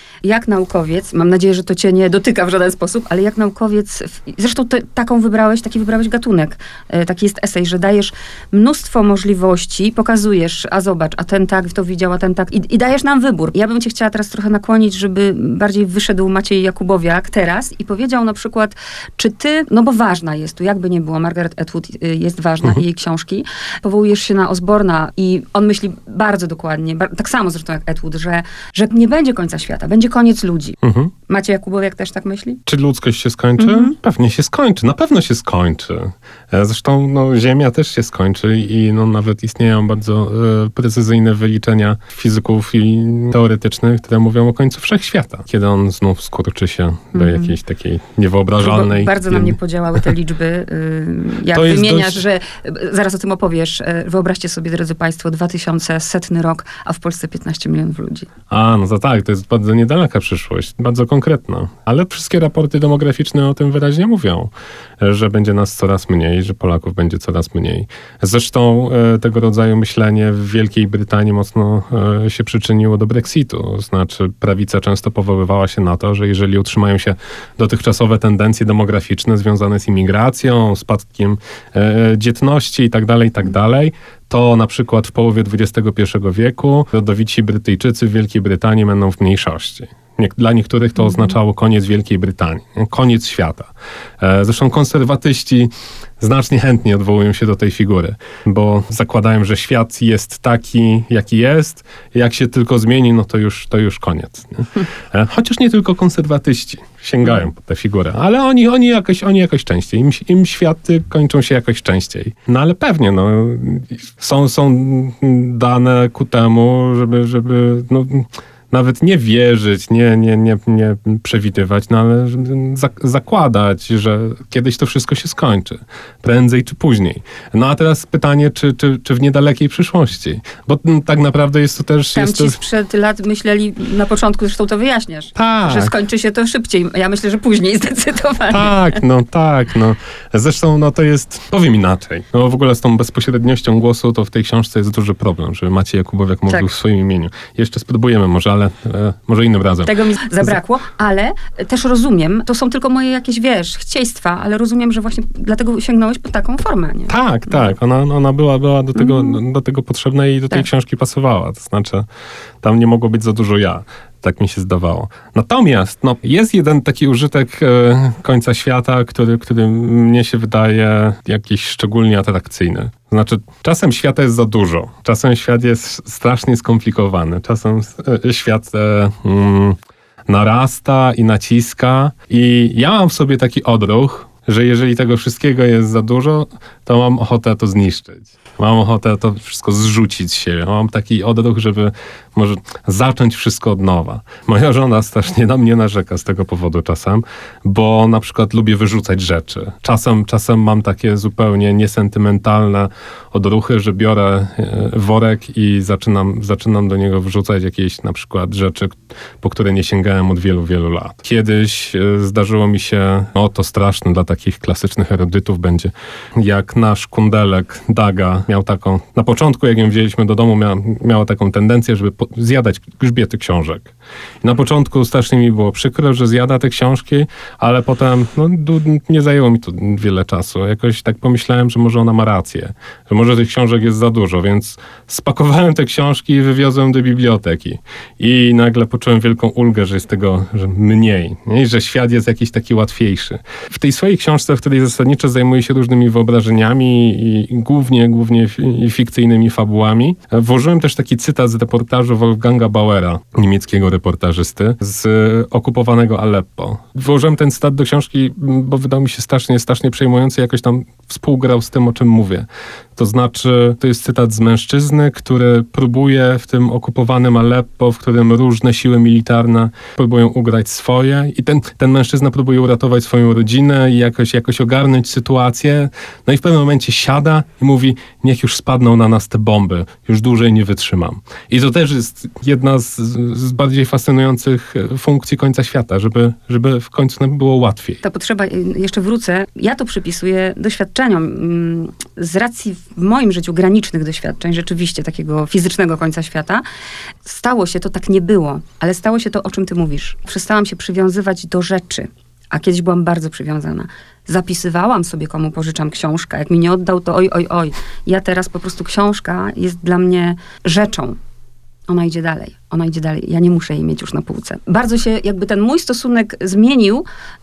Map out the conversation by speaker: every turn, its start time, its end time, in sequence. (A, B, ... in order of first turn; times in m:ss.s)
0:00.2-0:30.8 A
0:30.8-0:31.1 B
0:31.3-0:32.6 A
0:32.6-0:49.6 B
0:33.6-0:33.9 A
0:47.1-0:47.6 A
0:48.6-0:58.3 A
0:51.5-0:52.2 B
0:58.5-2:12.6 B
2:12.1-2:19.0 A
2:15.3-2:15.9 B
2:18.5-2:30.6 B
2:29.8-2:37.7 A
2:37.1-2:42.0 B
2:39.0-2:39.4 A
2:42.6-4:48.0 B
4:48.0-4:56.6 A
4:57.2-5:11.2 A
5:11.9-5:17.0 A